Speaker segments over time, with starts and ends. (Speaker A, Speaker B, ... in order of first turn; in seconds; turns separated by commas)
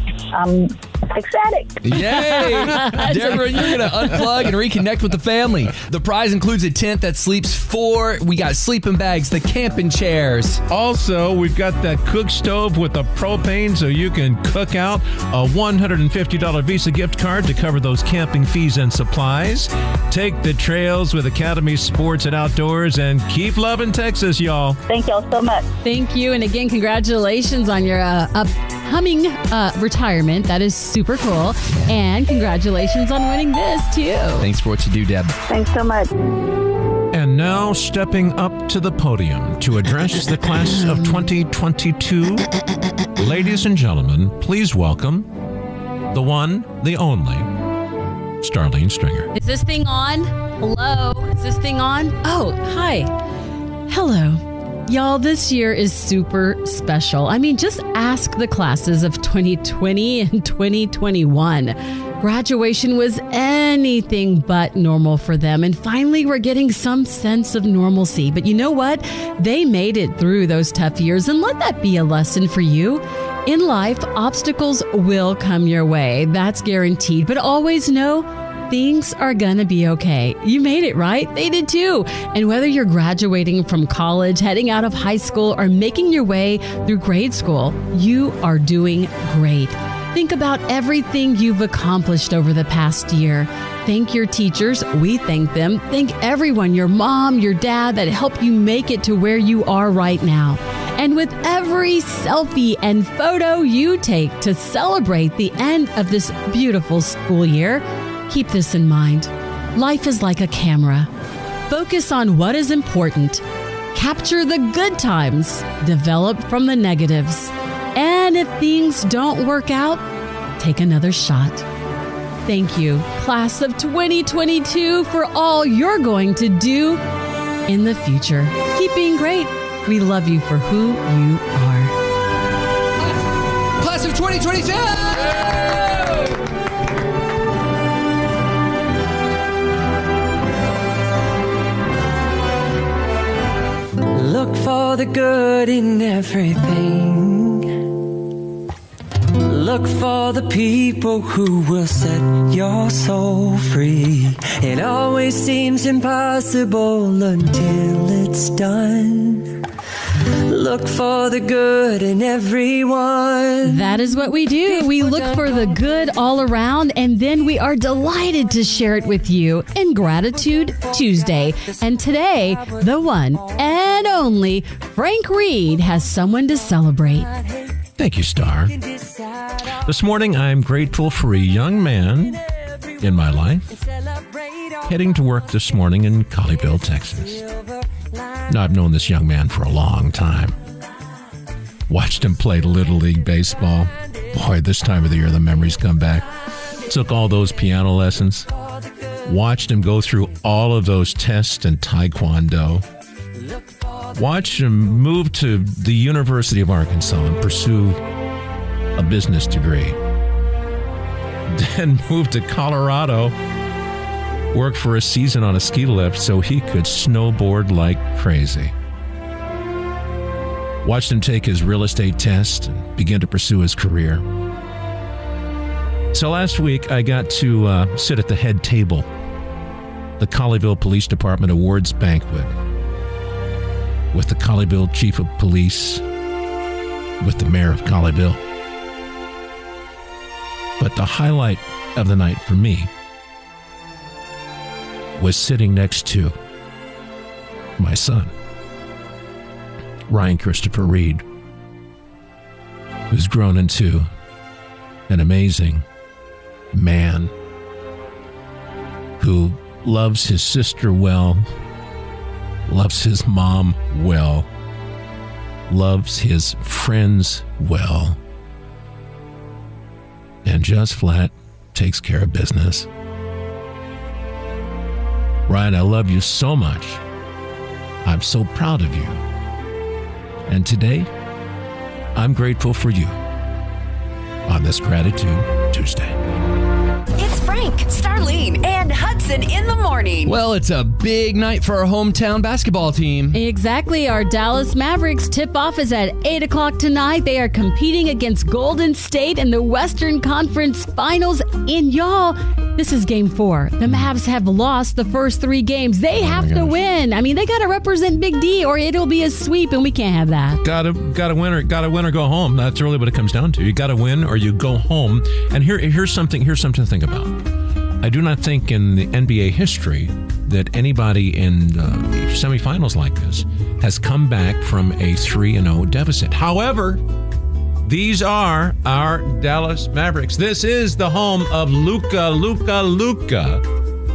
Speaker A: 0.3-1.8, Speaker B: 1.8-10.6, Speaker C: 1.9-4.2, Speaker D: 10.7-24.8, Speaker A: 24.9-25.6, Speaker C: 25.8-34.5, Speaker B: 34.4-35.4, Speaker A: 35.5-36.1, Speaker D: 37.1-42.5, Speaker D: 43.1-45.3, Speaker D: 46.1-47.5, Speaker D: 48.4-49.3, Speaker C: 49.3-53.1, Speaker C: 53.9-111.1, Speaker C: 111.7-113.4, Speaker C: 113.9-120.0, Speaker C: 120.6-121.6, Speaker C: 122.5-127.0, Speaker C: 127.7-131.9, Speaker B: 133.0-136.4, Speaker E: 144.1-148.0, Speaker E: 149.3-159.6, Speaker E: 160.4-165.8, Speaker C: 163.6-177.3, Speaker D: 178.0-178.8, Speaker E: 178.9-179.3, Speaker D: 179.7-182.4, Speaker D: 183.0-183.7, Speaker D: 184.8-187.4, Speaker D: 188.5-190.6, Speaker D: 191.9-196.3, Speaker D: 196.8-198.5, Speaker D: 199.2-202.8, Speaker D: 204.1-208.0, Speaker D: 208.9-210.0, Speaker D: 211.5-213.3, Speaker D: 214.5-218.7, Speaker D: 220.8-224.2, Speaker D: 226.1-229.1, Speaker D: 230.2-232.5, Speaker D: 234.1-236.0, Speaker D: 237.2-238.4, Speaker D: 240.8-242.9, Speaker D: 245.2-246.3, Speaker D: 247.8-248.3, Speaker D: 250.1-251.2, Speaker D: 253.1-254.1, Speaker D: 255.1-255.8, Speaker D: 256.7-257.3, Speaker D: 259.2-261.4, Speaker D: 262.7-264.5, Speaker D: 265.7-268.2, Speaker D: 270.4-272.9, Speaker D: 275.5-277.0, Speaker D: 278.0-279.2, Speaker D: 280.5-281.1, Speaker D: 282.1-283.1, Speaker D: 284.5-286.1, Speaker F: 287.1-290.3, Speaker B: 290.2-293.4, Speaker C: 293.3-310.6, Speaker B: 306.1-306.7, Speaker D: 310.6-317.4, Speaker D: 318.0-327.0, Speaker D: 327.8-333.6